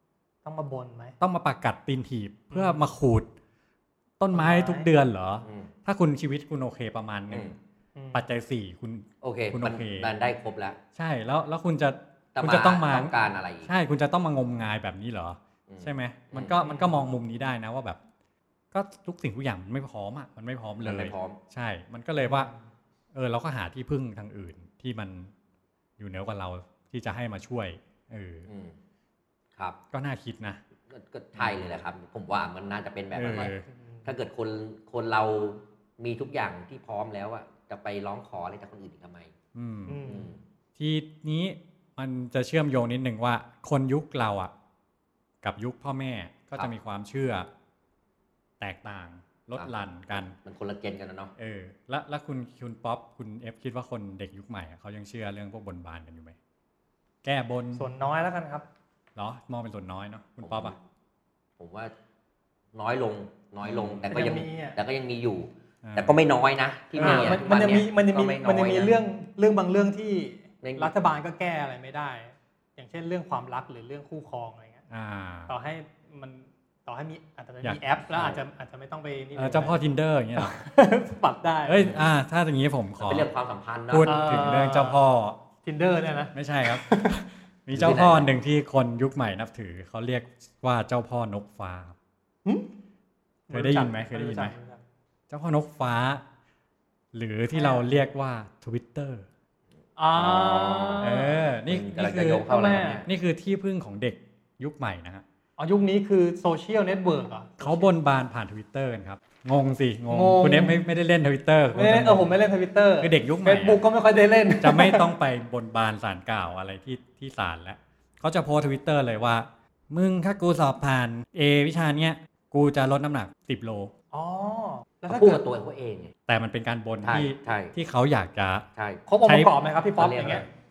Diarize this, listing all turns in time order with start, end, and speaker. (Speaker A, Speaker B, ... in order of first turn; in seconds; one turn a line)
Speaker A: 0.4-1.1
Speaker B: 1.2-3.3
Speaker A: 2.5-2.8
Speaker B: 4.2-7.5
Speaker A: 4.3-4.9
Speaker C: 5.4-5.7
Speaker A: 8.0-8.2
Speaker B: 8.1-10.1
Speaker C: 9.2-10.8
Speaker B: 10.9-13.1
Speaker C: 12.3-13.7
Speaker B: 13.6-18.0
Speaker C: 15.7-16.5
Speaker A: 16.6-17.0
Speaker B: 18.7-22.5
Speaker C: 20.8-21.4
Speaker A: 22.2-22.6
Speaker B: 23.1-25.3
Speaker B: 26.0-28.5
Speaker C: 28.5-28.7
Speaker B: 29.9-30.6
Speaker C: 30.9-33.5
Speaker B: 31.4-31.8
Speaker B: 33.1-33.6
Speaker C: 34.0-39.3
Speaker B: 39.5-40.0
Speaker A: 39.9-40.3
Speaker C: 40.0-40.4
Speaker B: 40.8-44.5
Speaker B: 45.4-47.5
Speaker B: 48.6-50.4
Speaker C: 49.6-51.3
Speaker B: 51.4-56.4
Speaker B: 57.2-57.8
Speaker A: 57.8-58.6
Speaker B: 59.1-60.7
Speaker C: 60.4-60.7
Speaker C: 61.6-61.9
Speaker C: 62.7-69.0
Speaker B: 63.6-64.0
Speaker A: 64.1-64.8
Speaker B: 65.8-66.2
Speaker B: 67.0-67.4
Speaker A: 67.0-74.8
Speaker C: 70.6-70.9
Speaker B: 74.9-75.5
Speaker A: 75.5-79.8
Speaker B: 79.3-80.6
Speaker A: 80.4-82.0
Speaker B: 81.7-83.3
Speaker C: 83.0-84.4
Speaker B: 83.9-85.4
Speaker A: 84.0-85.0
Speaker A: 85.6-87.2
Speaker B: 86.3-91.9
Speaker C: 87.7-88.3
Speaker A: 93.5-94.8
Speaker B: 93.5-94.5
Speaker B: 95.3-96.2
Speaker B: 97.1-99.3
Speaker A: 97.5-97.8
Speaker A: 100.0-101.4
Speaker C: 100.1-103.1
Speaker B: 101.0-102.5
Speaker A: 102.5-103.0
Speaker B: 103.0-105.2
Speaker A: 105.6-107.9
Speaker B: 107.6-112.3
Speaker A: 110.1-110.8
Speaker A: 111.7-115.1
Speaker B: 113.0-113.8
Speaker B: 114.6-123.9
Speaker A: 124.1-125.4
Speaker C: 125.1-126.1
Speaker B: 126.3-128.6
Speaker C: 127.0-127.7
Speaker C: 128.8-129.0
Speaker A: 129.1-130.4
Speaker B: 129.2-129.5
Speaker C: 130.0-130.4